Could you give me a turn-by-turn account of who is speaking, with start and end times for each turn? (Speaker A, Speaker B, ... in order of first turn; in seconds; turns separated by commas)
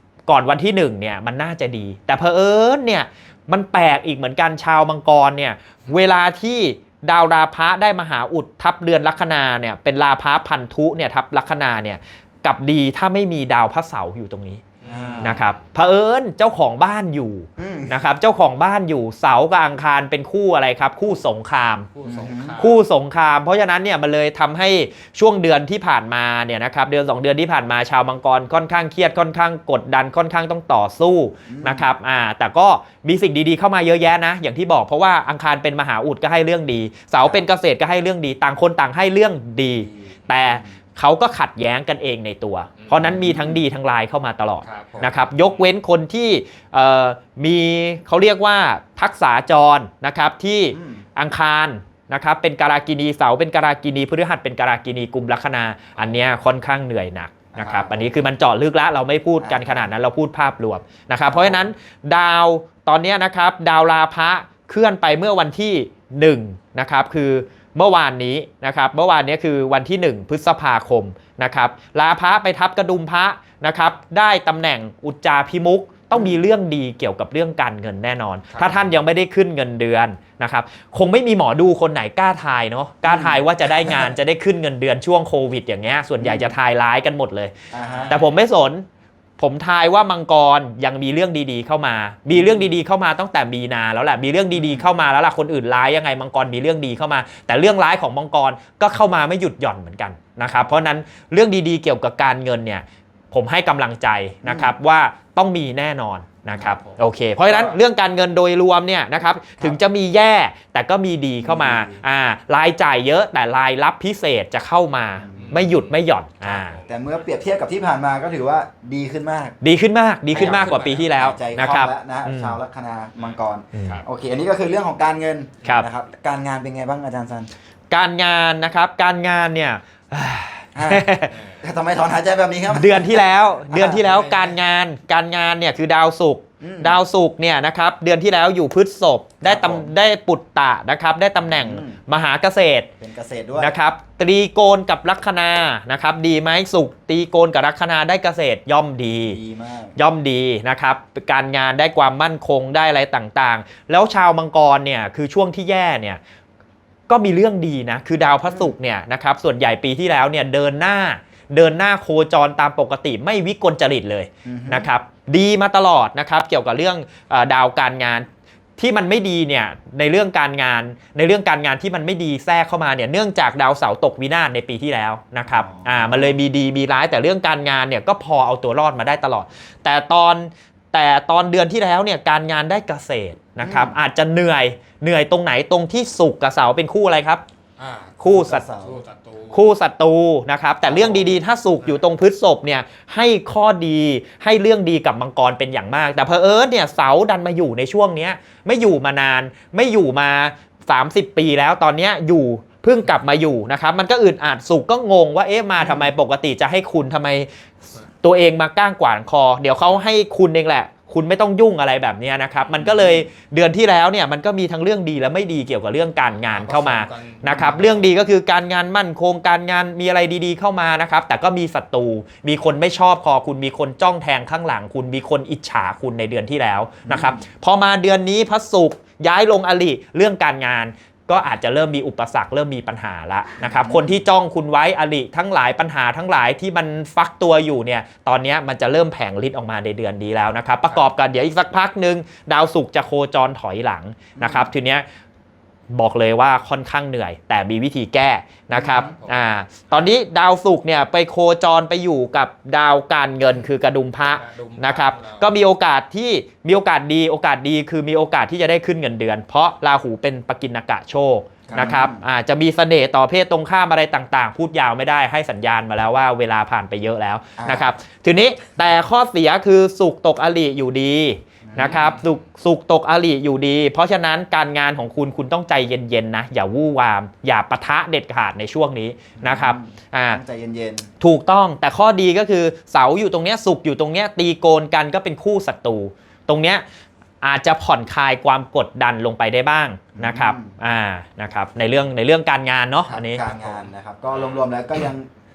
Speaker A: 0.3-14.6, Speaker B: 14.8-15.5, Speaker C: 14.9-15.4, Speaker A: 15.2-21.9, Speaker C: 17.6-18.0, Speaker B: 21.9-22.8, Speaker C: 22.0-22.6, Speaker A: 22.6-87.5, Speaker C: 31.5-32.0, Speaker C: 39.9-40.8, Speaker B: 42.8-43.1, Speaker C: 43.0-43.6, Speaker B: 44.6-45.5, Speaker C: 50.7-51.0, Speaker C: 57.5-58.2, Speaker C: 59.4-59.9, Speaker C: 61.3-61.7, Speaker C: 76.1-76.4, Speaker B: 78.5-78.9, Speaker C: 83.0-84.1, Speaker C: 86.2-86.5, Speaker C: 87.7-88.2, Speaker B: 87.7-88.2, Speaker A: 88.1-88.8, Speaker A: 89.4-116.8, Speaker C: 92.3-92.7, Speaker C: 94.5-94.9, Speaker C: 104.5-104.8, Speaker B: 106.6-107.0, Speaker C: 111.4-112.0, Speaker C: 115.2-115.7, Speaker B: 115.3-117.0, Speaker C: 116.9-119.6, Speaker A: 119.6-122.6, Speaker B: 120.3-121.1, Speaker C: 120.3-127.5, Speaker B: 123.2-124.0, Speaker A: 127.9-131.3, Speaker C: 130.8-134.1, Speaker B: 131.3-131.6, Speaker A: 132.7-142.9, Speaker B: 133.9-134.6, Speaker C: 136.6-137.0, Speaker C: 139.4-139.9, Speaker C: 141.4-142.0, Speaker C: 143.0-143.8, Speaker A: 143.6-149.4, Speaker C: 149.2-150.0, Speaker A: 150.0-156.2, Speaker A: 157.1-187.4, Speaker C: 158.4-158.7, Speaker C: 164.4-164.9, Speaker C: 175.5-176.4, Speaker C: 183.6-184.0, Speaker B: 187.8-189.6, Speaker C: 188.2-189.0, Speaker A: 188.2-188.6, Speaker A: 189.5-207.5, Speaker C: 190.9-191.3, Speaker C: 205.8-206.1, Speaker A: 208.2-245.1, Speaker C: 212.8-213.3, Speaker B: 216.4-218.1, Speaker C: 217.5-217.8, Speaker C: 227.1-227.4, Speaker C: 233.6-234.2, Speaker C: 244.4-244.7, Speaker A: 245.9-280.4, Speaker C: 248.7-249.1, Speaker B: 249.1-249.5, Speaker B: 254.3-255.6, Speaker C: 261.7-262.2, Speaker C: 267.6-267.9, Speaker C: 271.6-272.1, Speaker B: 271.8-272.3, Speaker C: 279.4-281.1, Speaker A: 281.2-286.8, Speaker A: 287.4-293.8, Speaker C: 290.2-290.7, Speaker C: 293.1-295.3